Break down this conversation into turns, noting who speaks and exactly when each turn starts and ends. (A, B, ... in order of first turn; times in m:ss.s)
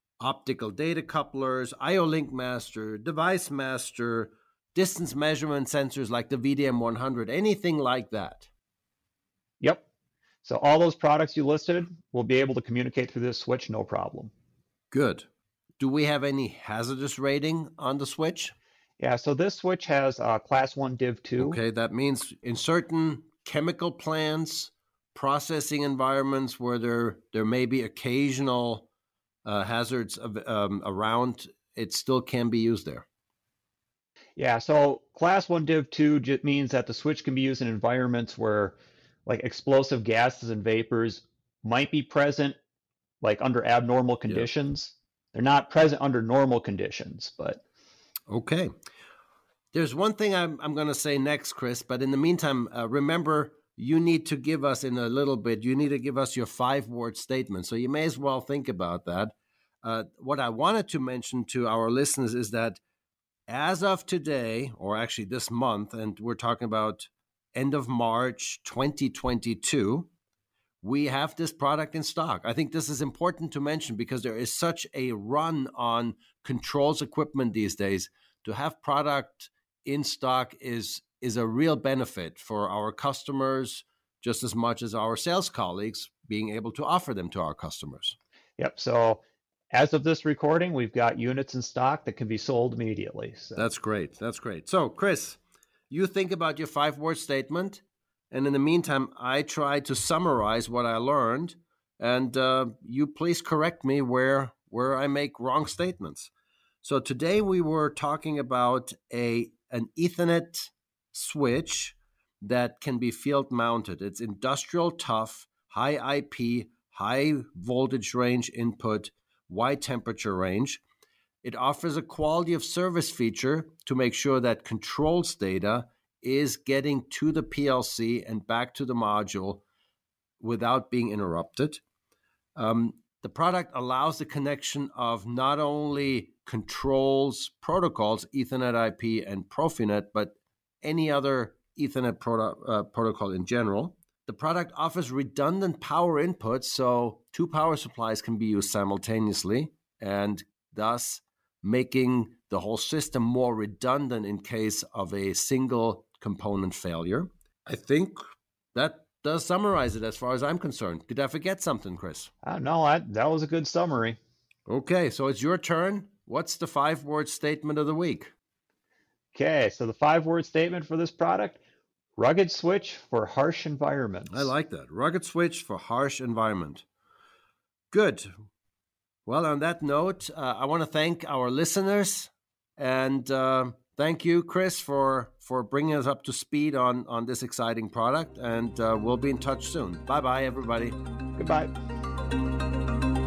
0:00.2-0:08.5 A
0:09.6-0:09.8 B
0:10.4-0:14.3 B
0:14.9-0:15.3 A
0:15.8-0:18.5 A
0:19.0-0:21.6 B
0:21.4-0:28.9 A
0:29.4-0:33.0 A
0:34.4-0:42.6 B
0:43.2-0:47.6 B
0:48.3-0:48.7 A
0:49.7-1:02.8 A
1:03.5-1:10.1 A
1:10.8-1:28.2 A
1:28.6-1:33.7 B
1:33.6-1:35.4 A
1:35.9-1:46.3 A
1:46.8-2:00.8 A
2:01.4-2:09.6 A
2:10.4-2:11.8 A
2:12.6-2:38.2 A
2:38.7-2:42.3 A
2:42.4-2:44.2 B
2:44.7-2:48.3 A
2:49.3-2:51.6 B
2:52.2-2:54.5 B
2:54.3-2:56.8 A
2:57.9-2:58.3 A
2:59.2-3:11.0 A
3:11.4-3:11.7 B